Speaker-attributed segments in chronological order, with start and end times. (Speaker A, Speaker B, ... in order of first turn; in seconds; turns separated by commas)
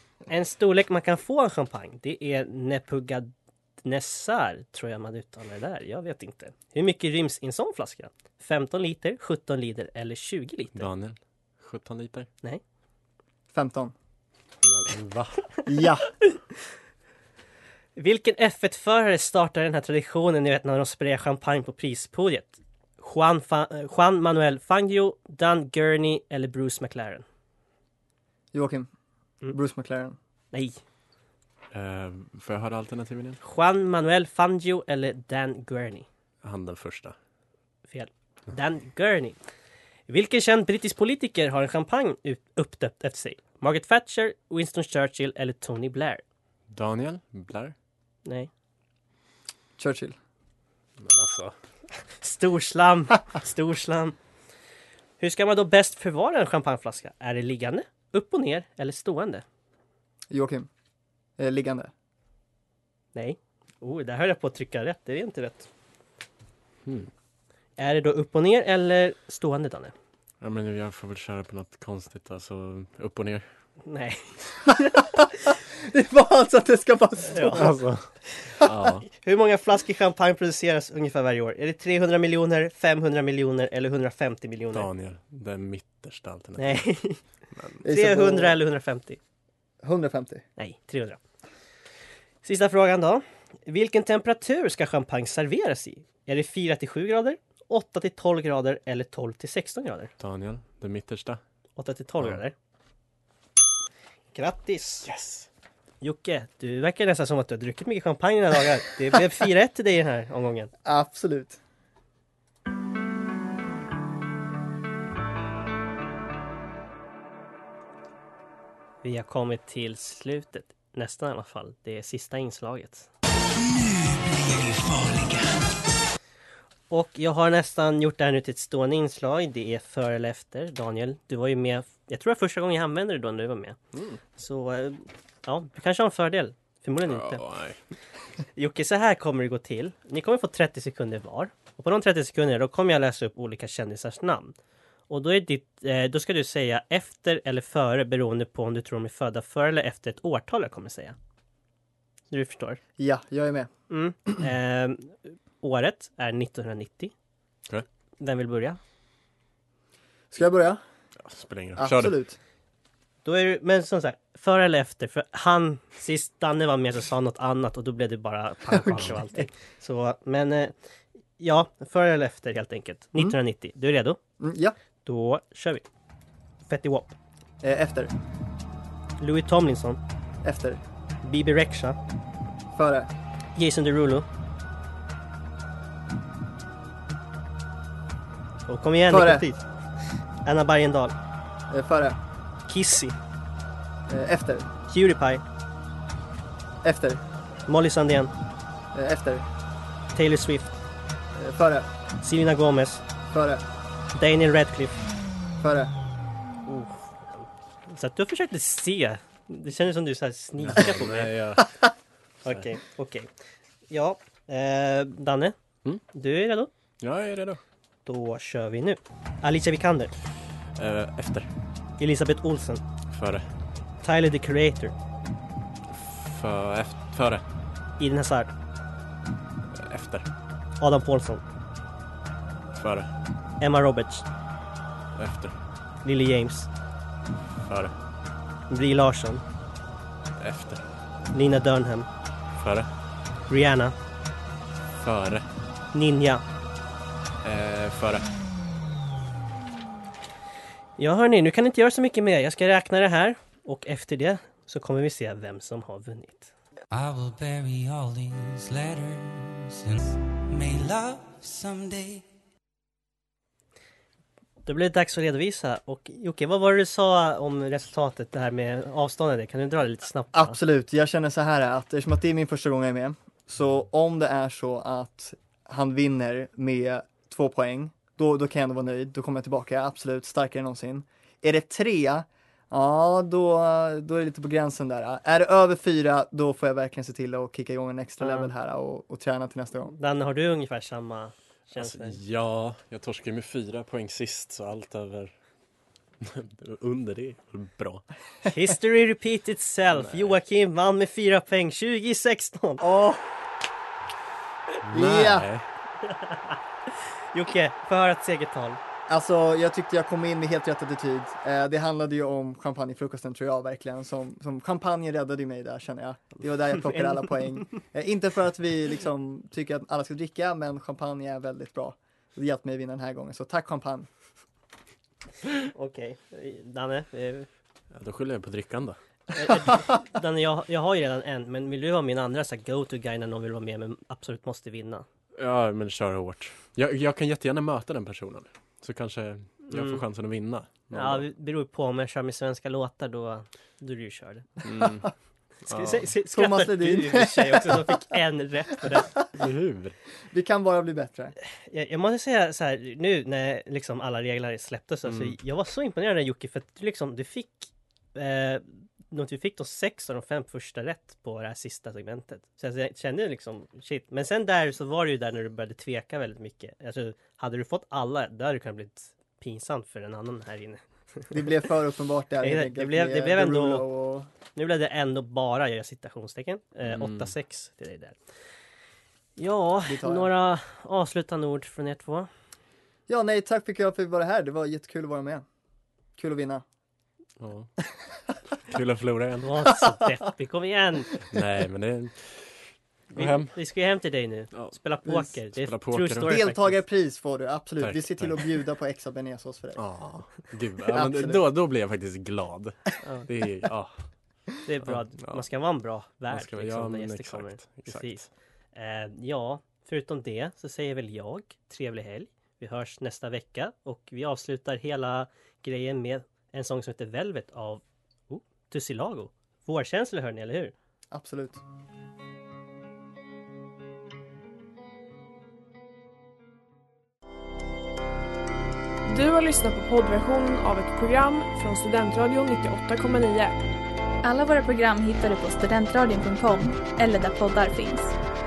Speaker A: 0.3-3.3, Speaker A: 3.8-10.8, Speaker B: 10.8-12.3, Speaker C: 13.5-13.9, Speaker B: 14.6-15.4, Speaker C: 15.7-16.1, Speaker A: 18.0-27.2, Speaker C: 28.5-28.9, Speaker C: 29.5-30.2, Speaker A: 30.5-30.8, Speaker B: 31.7-33.4, Speaker A: 33.4-36.1, Speaker B: 36.4-37.1, Speaker A: 37.9-39.4, Speaker A: 40.1-46.2, Speaker B: 46.7-47.7, Speaker A: 48.2-48.5, Speaker C: 49.8-50.2, Speaker B: 51.0-51.5, Speaker A: 52.2-54.2, Speaker A: 55.2-59.4, Speaker C: 60.3-60.7, Speaker C: 61.4-61.9, Speaker A: 63.1-65.7, Speaker A: 67.8-69.9, Speaker B: 70.4-73.5, Speaker A: 73.9-75.0, Speaker C: 75.8-77.8, Speaker A: 77.3-77.7, Speaker B: 77.6-78.1, Speaker B: 78.6-79.0, Speaker A: 79.1-84.9, Speaker B: 84.7-86.9, Speaker A: 86.6-87.2, Speaker C: 87.8-88.6, Speaker A: 87.9-89.2, Speaker C: 89.8-90.4, Speaker A: 90.6-91.2, Speaker A: 92.4-100.1, Speaker B: 100.2-101.4, Speaker A: 101.8-102.5, Speaker A: 104.3-105.1, Speaker B: 105.1-105.5, Speaker A: 106.0-110.7, Speaker C: 110.8-111.6, Speaker A: 119.0-123.1, Speaker D: 123.6-125.6, Speaker A: 126.9-133.8, Speaker B: 133.9-134.2, Speaker A: 134.4-137.4, Speaker B: 137.1-137.8, Speaker A: 138.6-144.5, Speaker A: 145.1-151.2, Speaker A: 152.3-152.8, Speaker C: 153.0-153.7, Speaker A: 153.9-157.1, Speaker A: 158.2-158.8, Speaker C: 160.3-160.8, Speaker B: 161.2-162.2, Speaker C: 161.8-162.4, Speaker A: 163.2-170.8, Speaker C: 168.7-169.5, Speaker A: 171.4-174.2, Speaker C: 174.4-174.8, Speaker A: 175.1-175.8, Speaker A: 176.7-177.2, Speaker C: 177.6-178.1, Speaker A: 179.2-180.0, Speaker C: 180.4-180.8, Speaker A: 181.2-182.0, Speaker C: 182.8-183.1, Speaker A: 183.6-184.3, Speaker A: 188.7-189.6, Speaker C: 189.1-189.5, Speaker A: 190.4-191.2, Speaker C: 191.7-192.2, Speaker A: 192.7-193.2, Speaker C: 194.1-194.7, Speaker A: 194.9-195.4, Speaker C: 196.8-197.2, Speaker A: 197.7-198.3, Speaker C: 198.9-199.5, Speaker A: 200.1-200.7, Speaker C: 201.3-201.9, Speaker A: 202.2-203.0, Speaker C: 203.3-203.7, Speaker A: 204.1-205.0, Speaker C: 205.6-205.9, Speaker A: 206.7-211.3, Speaker B: 210.6-211.8, Speaker A: 212.4-213.3, Speaker A: 213.9-215.6, Speaker A: 216.1-216.7, Speaker B: 217.0-217.6, Speaker A: 218.1-220.1, Speaker B: 220.8-221.5, Speaker A: 222.0-222.8, Speaker B: 223.1-223.4, Speaker A: 224.0-224.9, Speaker B: 225.9-227.4, Speaker A: 228.0-228.5, Speaker B: 229.7-230.3, Speaker A: 230.8-231.4, Speaker B: 232.8-233.1, Speaker A: 233.6-234.3, Speaker B: 235.2-235.5, Speaker A: 236.0-236.7, Speaker B: 237.6-237.9, Speaker A: 238.7-239.4, Speaker B: 240.4-240.8, Speaker A: 241.3-242.1, Speaker B: 242.6-242.9, Speaker A: 243.5-243.9, Speaker B: 245.0-245.5, Speaker A: 245.9-246.4, Speaker B: 247.4-248.3, Speaker A: 251.0-256.5, Speaker D: 256.9-262.2, Speaker A: 264.7-270.6, Speaker C: 270.3-289.9, Speaker A: 288.2-288.5, Speaker A: 289.9-292.2, Speaker B: 291.8-295.3, Speaker B: 296.2-298.1, Speaker A: 298.4-302.8, Speaker B: 299.9-300.4, Speaker C: 302.8-303.3, Speaker B: 304.9-305.6, Speaker C: 304.9-305.5, Speaker A: 306.1-306.6, Speaker A: 307.3-308.8, Speaker C: 309.1-324.1, Speaker A: 316.8-317.7, Speaker A: 325.7-327.5, Speaker B: 327.9-329.0, Speaker A: 329.3-335.1, Speaker B: 335.4-341.3, Speaker A: 339.7-340.0, Speaker A: 340.9-344.5, Speaker B: 344.6-345.1, Speaker B: 345.7-346.1, Speaker A: 345.7-349.1, Speaker C: 346.3-348.0, Speaker B: 349.4-349.9, Speaker C: 350.3-351.4, Speaker A: 351.7-371.3, Speaker B: 355.1-355.4, Speaker C: 371.3-374.3, Speaker A: 372.4-373.9, Speaker A: 374.6-378.2, Speaker B: 376.9-377.3, Speaker A: 379.4-382.3, Speaker C: 379.9-380.3, Speaker C: 383.1-385.4, Speaker C: 386.2-386.6, Speaker B: 387.4-387.7, Speaker B: 388.6-389.7, Speaker A: 389.4-391.2, Speaker B: 391.3-392.6, Speaker A: 393.1-396.8, Speaker B: 393.2-393.6, Speaker B: 394.5-394.8, Speaker B: 395.4-396.3, Speaker C: 396.3-399.8, Speaker B: 397.8-398.4, Speaker B: 399.8-404.0, Speaker C: 400.9-401.4, Speaker A: 404.6-408.2, Speaker B: 404.9-405.4, Speaker B: 406.3-408.3, Speaker A: 408.8-420.7, Speaker C: 421.1-421.6, Speaker E: 429.1-433.5, Speaker F: 434.2-438.1